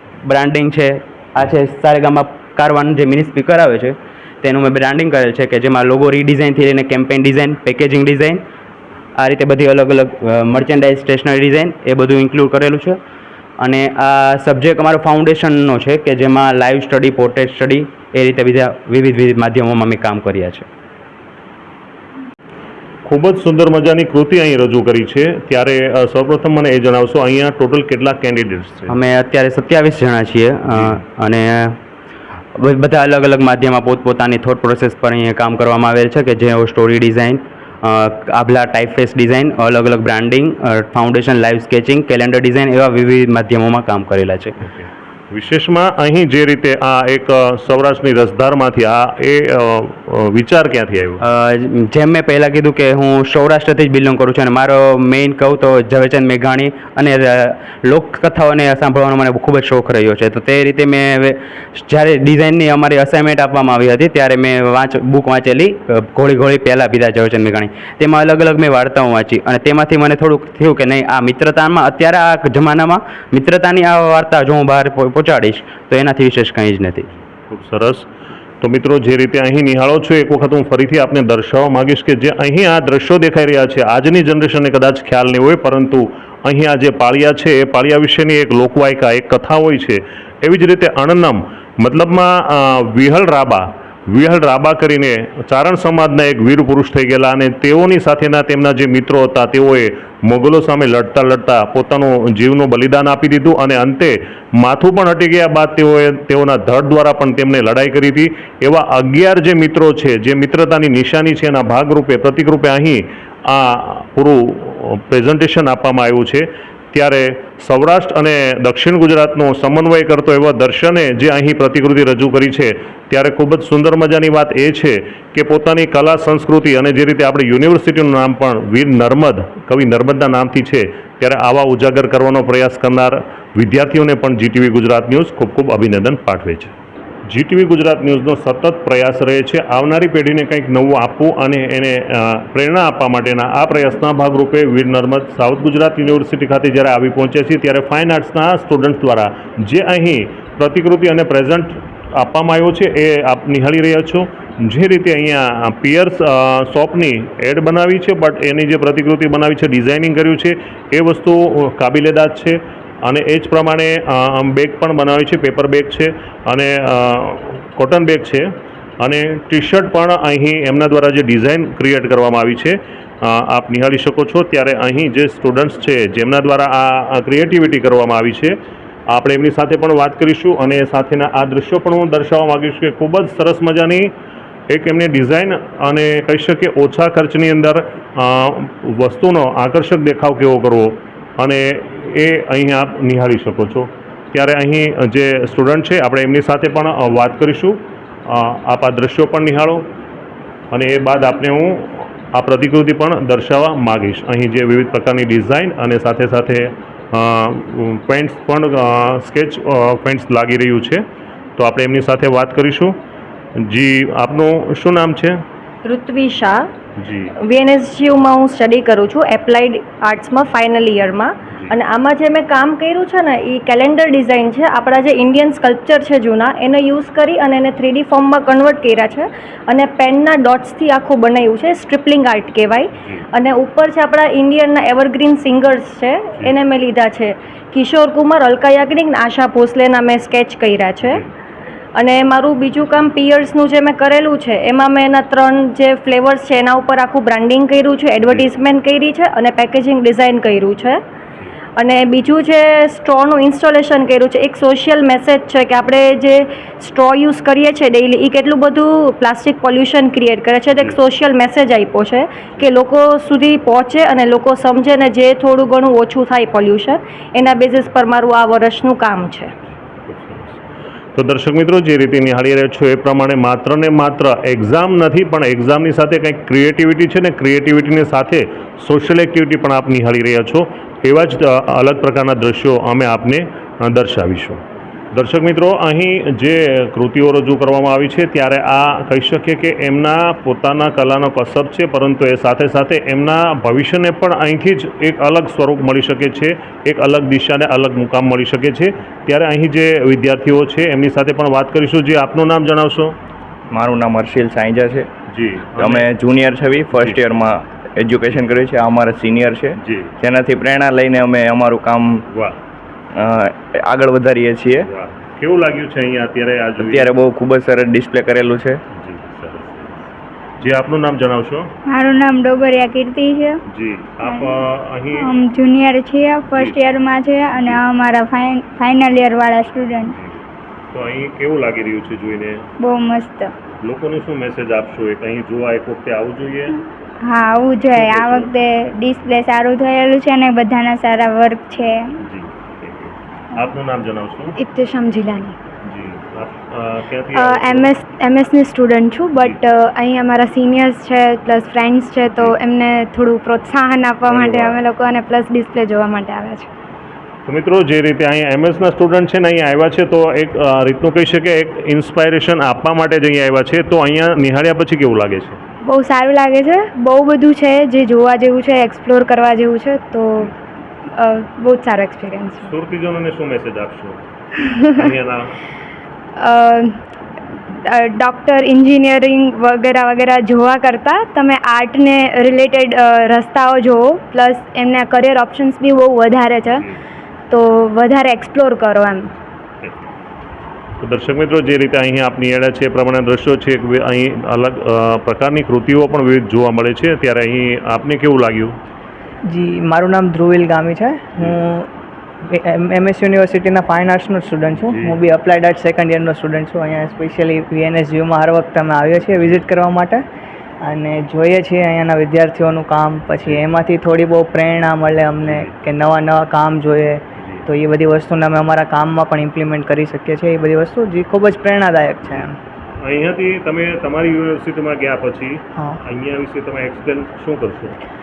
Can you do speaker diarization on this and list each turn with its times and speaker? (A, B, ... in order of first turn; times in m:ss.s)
0:00.2-0:08.4 A
0:09.2-0:13.0 A
0:13.6-0:20.6 A
0:23.1-0:29.0 B
0:28.9-0:31.7 A
0:30.7-0:31.0 B
0:32.6-0:44.5 A
0:44.8-0:51.2 B
0:51.2-1:17.1 A
1:17.5-1:18.1 B
1:18.6-2:16.7 B
2:17.3-2:48.5 B
2:49.0-2:58.6 B
2:59.1-3:04.1 B
3:04.7-3:19.9 B
3:20.7-3:31.0 B
3:31.6-3:33.0 B
3:33.6-3:35.4 B
3:35.8-3:36.6 C
3:37.0-3:37.3 B
3:37.5-4:01.2 C
4:01.0-4:01.3 B
4:02.0-4:11.0 C
4:11.8-4:29.5 C
4:30.1-4:30.6 B
4:31.1-4:44.6 B
4:45.1-5:03.1 B
5:03.7-5:05.1 D
5:05.3-5:06.1 B
5:05.8-5:09.7 D
5:09.8-5:10.1 B
5:10.2-5:12.1 D
5:12.3-5:12.6 B
5:13.2-5:14.8 D
5:14.8-5:17.1 B
5:16.8-5:18.8 D
5:18.9-5:20.1 B
5:20.6-5:21.7 B
5:21.9-5:23.5 E
5:23.7-5:25.3 B
5:25.2-5:30.1 E
5:26.5-5:26.8 B
5:27.6-5:27.8 B
5:30.1-5:30.4 B
5:30.9-5:32.6 B
5:32.8-5:33.5 E
5:33.8-5:36.8 B
5:37.2-5:42.0 E
5:37.9-5:38.6 B
5:42.2-5:44.6 B
5:44.6-5:45.5 F
5:45.9-5:48.0 B
5:47.3-5:56.6 F
5:54.2-5:54.8 B
5:57.5-6:05.6 B
6:05.9-6:10.5 F
6:11.2-6:12.9 F
6:12.6-6:14.0 B
6:14.6-6:15.2 F
6:15.0-6:15.3 B
6:16.4-6:16.9 F
6:18.0-6:26.8 F
6:27.5-6:29.3 F
6:31.0-6:38.8 B
6:39.5-6:41.9 G
6:41.3-6:41.6 B
6:42.5-6:50.2 G
6:44.8-6:45.2 B
6:50.8-7:02.6 G
6:53.4-6:53.6 B
6:55.4-6:55.8 B
6:57.4-6:57.7 B
7:03.0-7:08.0 B